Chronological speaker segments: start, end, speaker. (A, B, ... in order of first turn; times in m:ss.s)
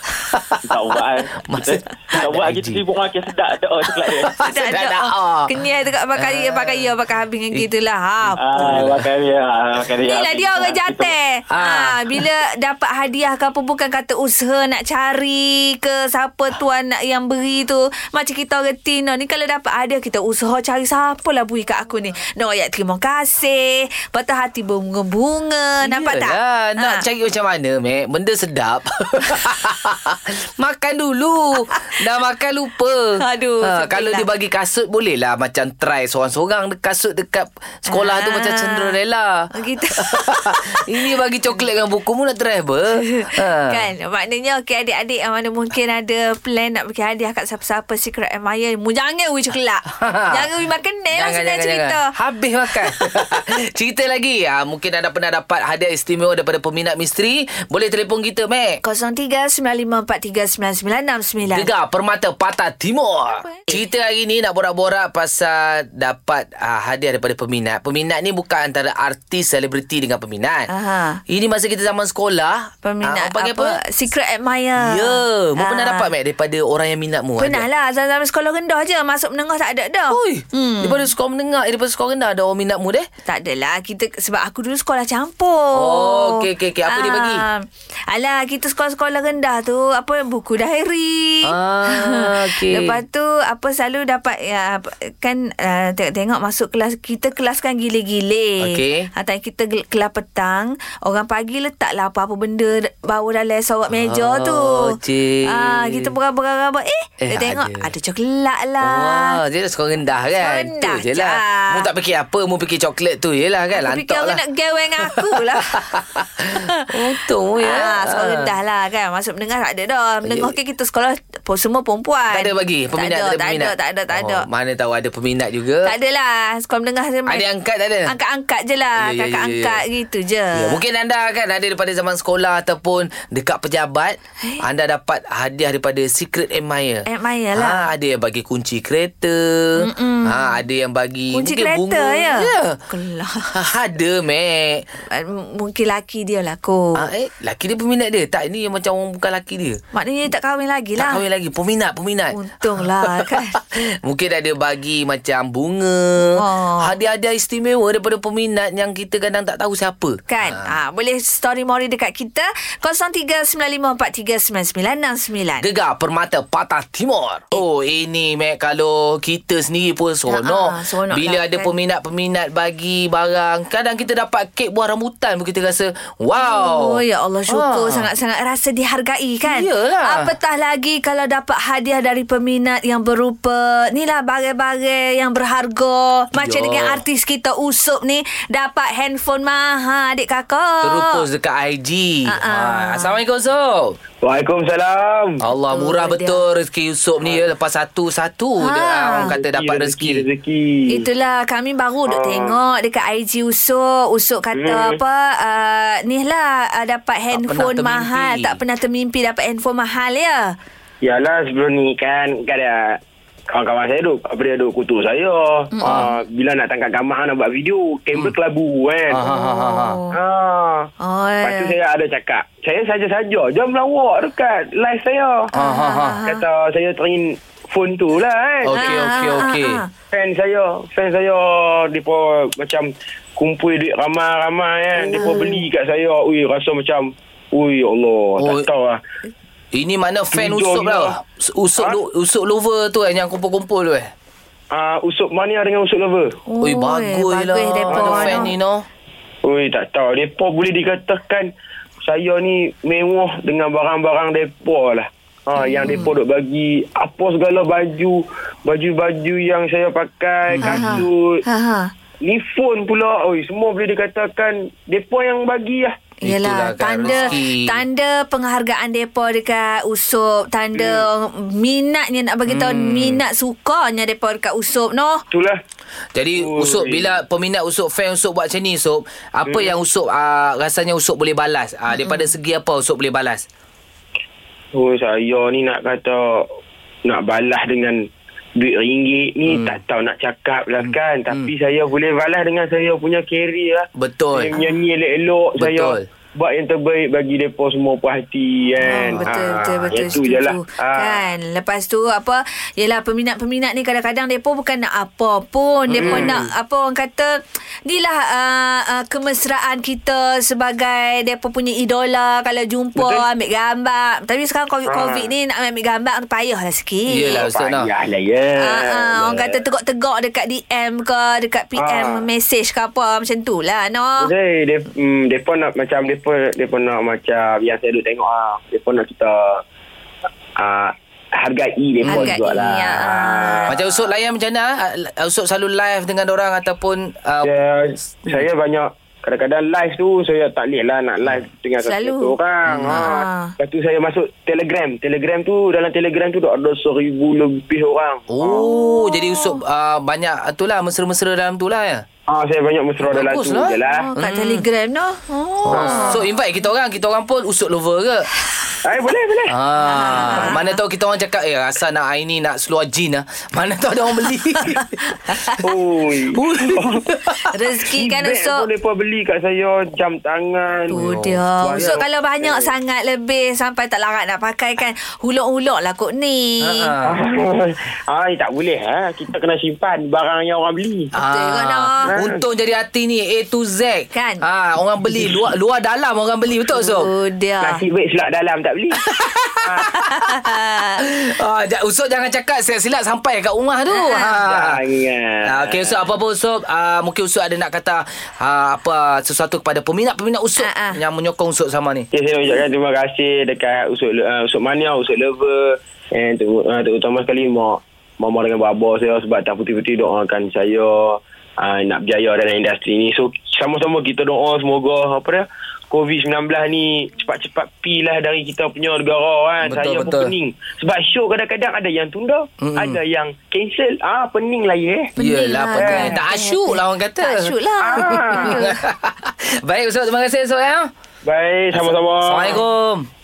0:00.3-0:00.7 A
0:00.7-0:04.4 B
0:01.5-0:02.8 A
0:04.0-0:05.5 A
0:04.4-0:08.6 C
0:06.2-0:06.9 A
0:08.2-0:09.1 A
0:08.4-0:11.1 B
0:10.1-0:27.0 C
0:11.5-0:12.3 A
0:25.8-0:43.9 A
0:33.2-0:34.3 C
0:37.9-0:39.0 C
0:39.5-0:41.1 C
0:43.0-0:52.1 C
0:49.9-0:50.5 A
0:51.1-0:58.8 A
0:58.8-1:01.7 C
1:01.4-1:10.7 A
1:03.4-1:03.8 C
1:10.7-1:11.2 C
1:11.3-1:13.8 A
1:12.8-1:16.1 C
1:14.8-1:17.7 A
1:17.4-1:21.1 C
1:20.1-1:23.1 A
1:23.3-1:45.0 C
1:25.8-1:27.4 A
1:31.4-1:33.0 A
1:38.6-1:39.1 A
1:43.9-1:46.1 A
1:45.5-1:49.4 C
1:47.2-1:47.9 A
1:48.8-1:54.4 A
1:50.4-1:51.9 C
1:53.8-1:55.8 C
1:55.0-1:58.5 A
1:56.6-1:56.9 C
1:57.6-2:04.5 C
2:00.2-2:00.5 A
2:02.3-2:05.9 A
2:05.9-2:07.5 C
2:07.3-2:08.1 A
2:08.1-2:10.8 C
2:09.0-2:09.8 A
2:10.5-2:22.8 A
2:17.1-2:17.8 C
2:19.8-2:20.6 C
2:21.3-2:23.5 C
2:23.5-2:24.9 A
2:25.1-2:27.0 C
2:27.0-2:29.8 A
2:29.9-2:31.2 C
2:31.0-2:40.7 A
2:32.3-2:33.6 C
2:36.3-2:36.9 C
2:40.3-2:45.7 C
2:45.6-2:58.1 A
2:50.3-2:51.7 C
2:56.4-3:11.2 C
2:59.4-3:00.3 A
3:06.4-3:07.0 A
3:10.8-3:14.0 A
3:12.3-3:13.1 C
3:14.2-3:15.4 D
3:15.4-3:20.2 A
3:15.7-3:16.4 C
3:17.2-3:17.5 D
3:18.6-3:19.4 C
3:19.1-3:21.0 D
3:20.9-3:30.6 C
3:22.1-3:22.6 D
3:24.5-3:25.0 D
3:27.3-3:28.6 A
3:31.0-3:39.3 D
3:35.7-3:36.2 C
3:35.8-3:36.1 A
3:39.1-3:40.0 A
3:39.2-3:40.2 C
3:40.1-3:40.9 D
3:41.0-3:41.8 C
3:41.4-3:45.5 D
3:45.5-3:46.2 A
3:45.5-3:46.4 C
3:46.2-3:49.0 D
3:48.6-3:49.8 A
3:48.7-3:49.9 C
3:50.1-3:59.0 D
3:55.0-3:55.6 C
3:58.4-3:58.7 A
3:59.7-4:04.1 A
4:00.3-4:01.1 D
4:04.7-4:06.4 D
4:06.5-4:08.5 C
4:06.6-4:08.9 A
4:07.9-4:08.5 D
4:09.4-4:11.5 D
4:12.0-4:21.4 D
4:15.6-4:16.1 C
4:20.5-4:21.1 A
4:20.6-4:21.9 C
4:22.2-4:25.9 D
4:26.2-4:35.2 C
4:26.2-4:27.8 A
4:30.8-4:31.1 D
4:32.5-4:33.2 A
4:35.3-4:35.6 D
4:36.2-4:43.5 A
4:36.4-4:37.2 D
4:39.5-4:39.7 D
4:41.9-4:42.3 C
4:44.7-4:46.5 D
4:47.0-4:48.0 D
4:48.6-5:01.2 D
4:49.5-4:49.8 A
4:50.8-4:51.5 A
4:54.0-4:54.6 A
4:54.6-4:54.8 C
4:55.6-4:56.0 A
4:58.8-5:17.5 C
5:05.9-5:06.4 A
5:05.9-5:06.5 D
5:13.0-5:13.2 D
5:14.9-5:15.3 D
5:17.1-5:17.9 A
5:17.3-5:19.6 D
5:18.6-5:24.3 C
5:21.8-5:22.3 D
5:24.2-5:29.6 D
5:30.6-5:34.0 D
5:32.0-5:32.4 A
5:32.0-5:33.7 C
5:33.7-5:37.5 A
5:37.4-5:48.7 D
5:41.8-5:42.4 C
5:42.7-5:43.2 A
5:42.9-5:43.5 C
5:48.3-5:52.0 A
5:48.5-5:49.6 C
5:52.3-5:54.1 D
5:53.0-5:54.7 A
5:53.9-5:56.2 C
5:55.6-5:58.3 A
5:55.7-5:56.2 D
5:58.8-5:59.5 D
5:59.5-6:05.6 A
5:59.8-6:00.8 C
6:05.3-6:05.6 C
6:05.6-6:07.0 D
6:06.3-6:07.6 A
6:07.5-6:08.7 C
6:07.9-6:11.0 D
6:10.9-6:16.9 C
6:10.9-6:12.0 A
6:11.6-6:12.7 D
6:16.6-6:17.2 A
6:17.0-6:21.1 D
6:21.1-6:27.1 A
6:21.2-6:22.1 C
6:22.1-6:22.4 D
6:24.1-6:24.4 C
6:26.7-6:27.8 C
6:27.6-6:29.0 D
6:29.0-6:30.3 A
6:29.8-6:31.1 C
6:31.0-6:34.8 A
6:33.9-6:34.4 C
6:34.4-6:36.1 D
6:35.4-6:42.1 A
6:40.6-6:41.0 C
6:42.1-7:05.1 D
6:59.6-7:00.3 A
7:02.6-7:03.0 A
7:05.2-7:08.8 C
7:05.2-7:10.9 A
7:05.8-7:06.2 D
7:07.8-7:08.6 D
7:11.2-7:12.6 D
7:11.8-7:13.1 A